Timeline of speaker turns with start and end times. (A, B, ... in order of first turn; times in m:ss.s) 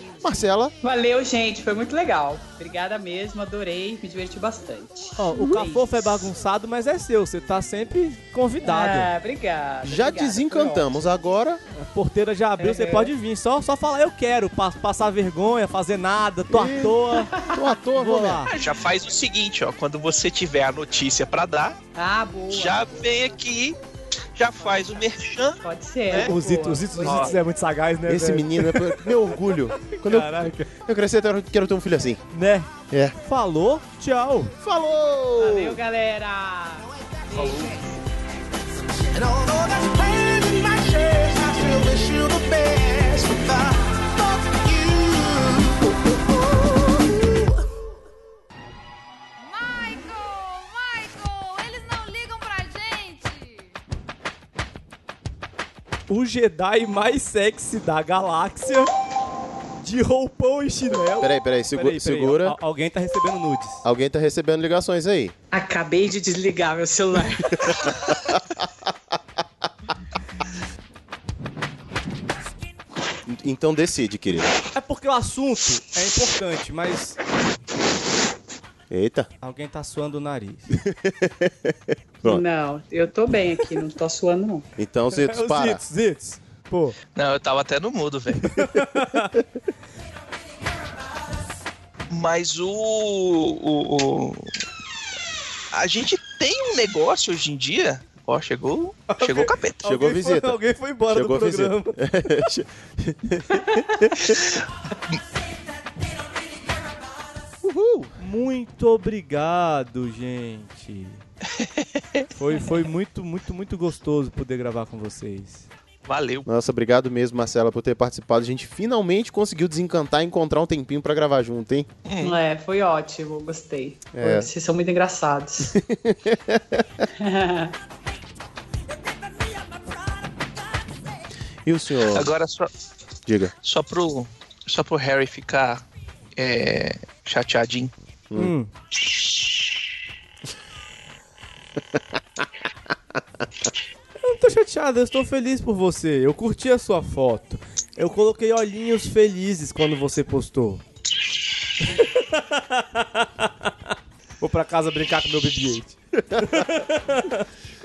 0:00.2-0:00.7 A
0:00.8-0:06.3 B
0:05.2-0:09.1 C
0:08.6-0:10.9 B
0:09.8-0:11.6 A
0:11.8-0:17.3 C
0:12.6-0:13.1 B
0:16.5-0:18.4 A
0:17.1-0:17.6 B
0:18.0-0:18.5 C
0:18.5-0:21.8 D
0:22.0-0:23.1 B
0:22.5-0:23.8 D
0:24.4-0:25.6 D
0:25.6-0:27.4 B
0:26.1-0:30.7 C
0:27.0-0:27.4 D
0:28.1-0:32.2 A
0:32.3-0:34.5 C
0:32.9-0:33.2 A
0:34.6-0:35.8 A
0:35.4-0:37.6 B
0:37.0-0:37.9 E
0:39.1-0:47.6 E
0:49.4-0:53.8 F
0:56.1-0:58.9 C
0:59.8-1:03.8 C
1:01.2-1:02.6 A
1:03.8-1:05.3 A
1:05.5-1:08.1 B
1:07.5-1:08.7 A
1:13.3-1:14.6 A
1:14.7-1:17.2 C
1:18.9-1:19.3 A
1:19.4-1:20.7 C
1:20.8-1:22.4 A
1:22.2-1:24.7 B
1:24.8-1:25.8 A
1:25.1-1:27.0 C
1:27.2-1:28.6 D
1:28.4-1:29.4 C
1:32.1-1:34.6 D
1:35.7-1:40.1 D
1:39.1-1:42.1 C
1:39.8-1:44.4 A
1:47.6-1:48.1 A
1:48.2-1:51.2 C
1:51.5-1:52.3 D
1:52.4-1:55.7 C
1:56.0-1:56.5 D
1:56.5-2:01.9 A
2:02.0-2:02.4 D
2:02.2-2:05.7 B
2:04.1-2:04.5 A
2:05.7-2:07.0 A
2:07.1-2:07.8 B
2:11.7-2:12.3 A
2:12.0-2:12.7 D
2:13.3-2:13.5 A
2:13.6-2:15.8 D
2:16.4-2:17.9 D
2:18.4-2:18.7 C
2:24.2-2:30.8 C
2:31.8-2:33.7 C
2:34.4-2:37.4 C